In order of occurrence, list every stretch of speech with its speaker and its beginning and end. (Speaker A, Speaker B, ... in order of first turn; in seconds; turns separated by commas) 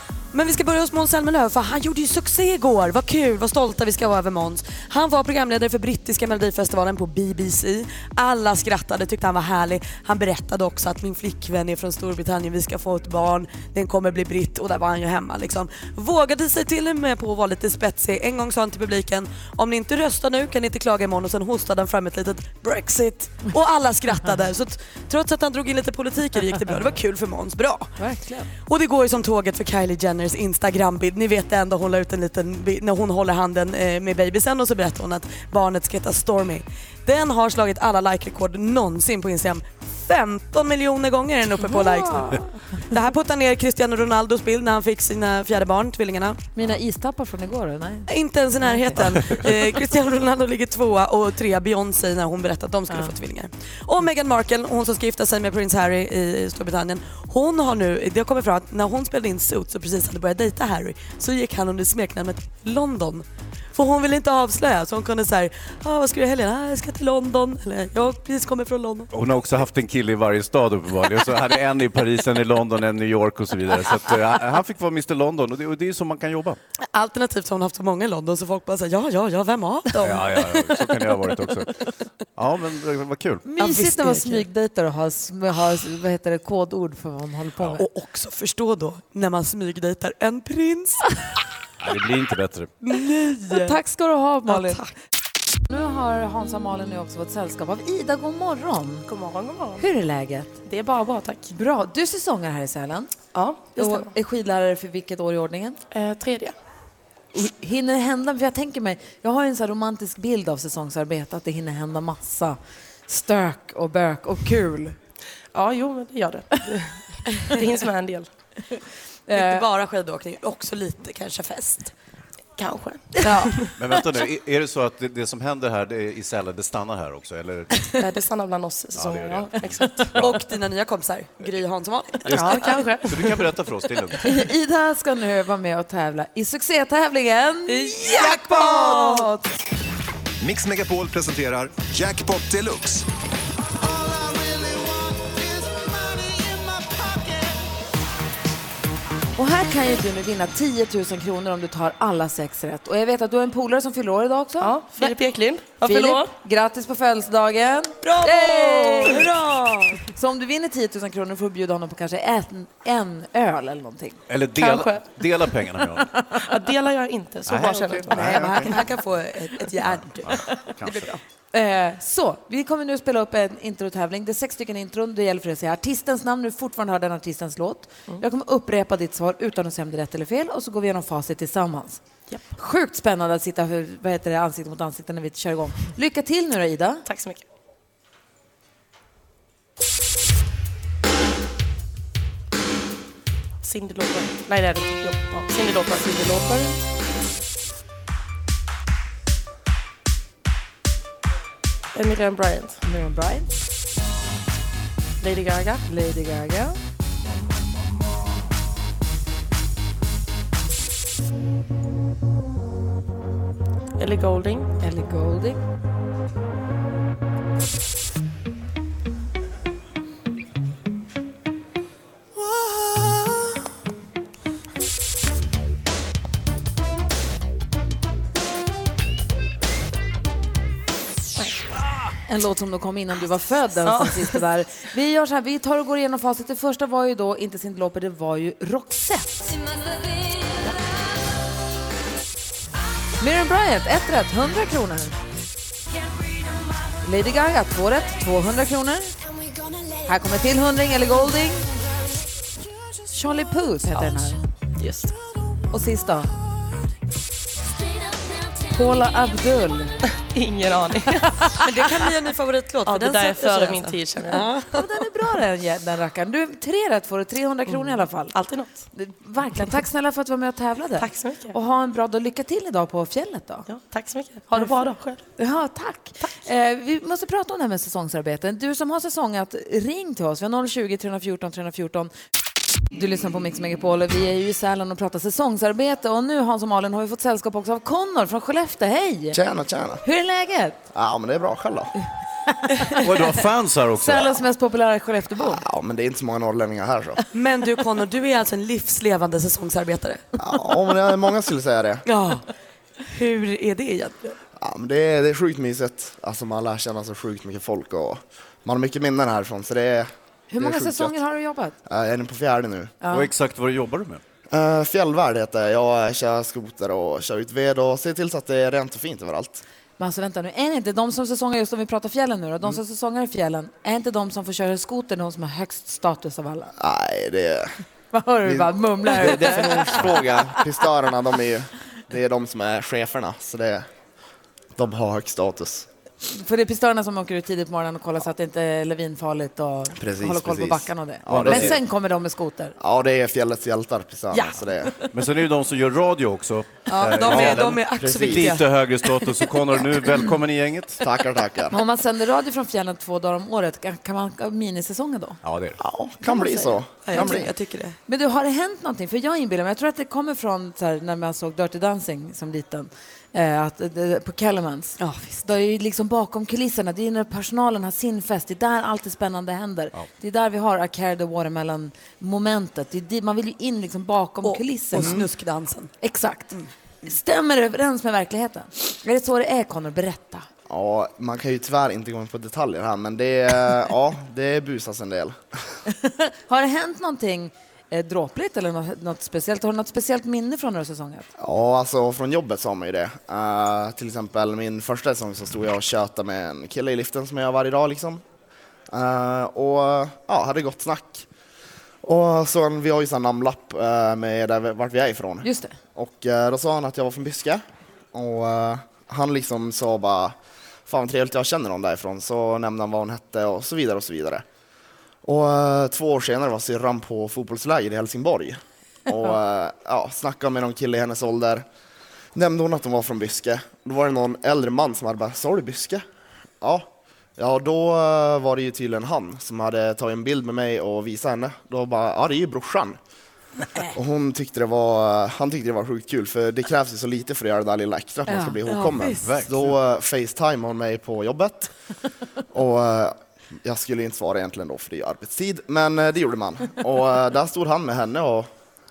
Speaker A: 0.3-28.0, Speaker B: 28.0-28.5, Speaker A: 28.5-46.4, Speaker B: 41.8-42.5, Speaker B: 46.5-48.1, Speaker A: 48.1-69.1, Speaker B: 48.6-49.0, Speaker C: 69.1-76.6, Speaker A: 76.9-80.8, Speaker C: 80.0-81.7, Speaker C: 82.3-83.4, Speaker B: 83.5-87.8, Speaker A: 83.6-84.5, Speaker A: 87.7-91.1, Speaker C: 91.8-92.7, Speaker A: 92.8-93.8, Speaker B: 93.5-94.8, Speaker A: 94.5-94.9, Speaker B: 95.7-99.1, Speaker D: 99.1-99.9, Speaker B: 99.8-100.6, Speaker D: 100.6-101.5, Speaker B: 101.5-103.1, Speaker D: 103.3-104.1, Speaker B: 103.8-105.8, Speaker D: 105.9-106.5, Speaker B: 107.3-115.0, Speaker D: 115.5-118.3, Speaker B: 119.3-119.6, Speaker A: 119.3-121.9, Speaker D: 122.6-123.7, Speaker B: 123.2-123.5, Speaker C: 123.8-127.8, Speaker D: 127.9-130.2, Speaker C: 128.9-130.4, Speaker A: 130.1-132.7, Speaker C: 132.3-134.2, Speaker D: 132.3-133.4, Speaker B: 132.4-133.0, Speaker B: 134.2-139.5, Speaker A: 137.7-139.3, Speaker E: 140.4-143.0, Speaker E: 143.8-147.7, Speaker B: 149.4-155.1, Speaker D: 154.6-156.3, Speaker B: 155.8-164.2, Speaker A: 158.0-159.6, Speaker C: 164.3-166.2, Speaker D: 164.6-165.0, Speaker D: 166.3-168.8, Speaker C: 167.5-168.7, Speaker A: 168.0-171.1, Speaker C: 170.2-171.1, Speaker B: 171.5-182.0, Speaker B: 182.5-187.0, Speaker D: 187.0-187.4, Speaker D: 193.6-196.8, Speaker D: 201.9-202.8, Speaker B: 202.8-203.5, Speaker D: 205.2-205.8, Speaker B: 205.8-206.8, Speaker D: 214.0-214.7, Speaker B: 214.8-215.6, Speaker B: 232.3-239.6, Speaker D: 233.8-234.4, Speaker B: 243.2-245.2, Speaker B: 247.0-249.2, Speaker B: 250.1-251.7, Speaker B: 253.1-254.4, Speaker D: 254.8-255.1, Speaker B: 255.7-256.3, Speaker B: 258.7-259.9, Speaker D: 260.1-261.6, Speaker A: 261.6-264.8, Speaker D: 262.9-264.5, Speaker B: 264.7-268.3, Speaker D: 268.3-268.8, Speaker B: 268.9-273.6, Speaker D: 271.0-271.6, Speaker D: 273.7-275.2, Speaker B: 274.5-282.1, Speaker B: 282.9-289.4, Speaker F: 289.3-290.0, Speaker B: 290.0-290.8, Speaker F: 290.9-291.9, Speaker B: 292.6-293.3, Speaker C: 293.0-294.4, Speaker B: 294.0-295.6, Speaker F: 295.4-297.2, Speaker A: 297.3-300.2, Speaker F: 300.4-302.0, Speaker A: 302.0-302.4, Speaker A: 303.0-304.4, Speaker F: 304.6-311.2, Speaker B: 310.5-311.8, Speaker F: 311.9-312.9, Speaker B: 313.0-313.3, Speaker C: 313.1-314.2, Speaker F: 314.5-319.6, Speaker B: 320.0-326.7, Speaker F: 326.8-327.7, Speaker B: 328.1-330.0, Speaker F: 328.4-333.9, Speaker F: 334.8-335.9, Speaker B: 336.3-342.7, Speaker F: 340.0-341.8, Speaker C: 341.3-341.8, Speaker F: 342.8-344.9, Speaker B: 344.3-345.1, Speaker C: 345.1-351.0, Speaker A: 346.9-348.7, Speaker F: 347.2-348.5, Speaker F: 351.0-351.8, Speaker B: 351.7-355.4, Speaker C: 355.4-355.8, Speaker F: 355.8-357.5, Speaker B: 356.2-357.4, Speaker A: 357.1-357.9, Speaker B: 358.1-375.2, Speaker A: 365.0-365.4, Speaker A: 374.4-375.9, Speaker B: 376.0-380.4, Speaker F: 380.7-385.4, Speaker B: 385.9-391.3, Speaker F: 391.4-398.2, Speaker F: 398.9-401.2, Speaker F: 402.0-410.4, Speaker B: 405.4-405.7, Speaker F: 410.9-414.4, Speaker F: 415.2-421.6, Speaker F: 422.3-426.0, Speaker F: 426.6-433.0, Speaker F: 433.9-441.7, Speaker B: 438.3-438.6, Speaker A: 438.7-439.2, Speaker C: 439.2-439.7, Speaker F: 442.5-448.5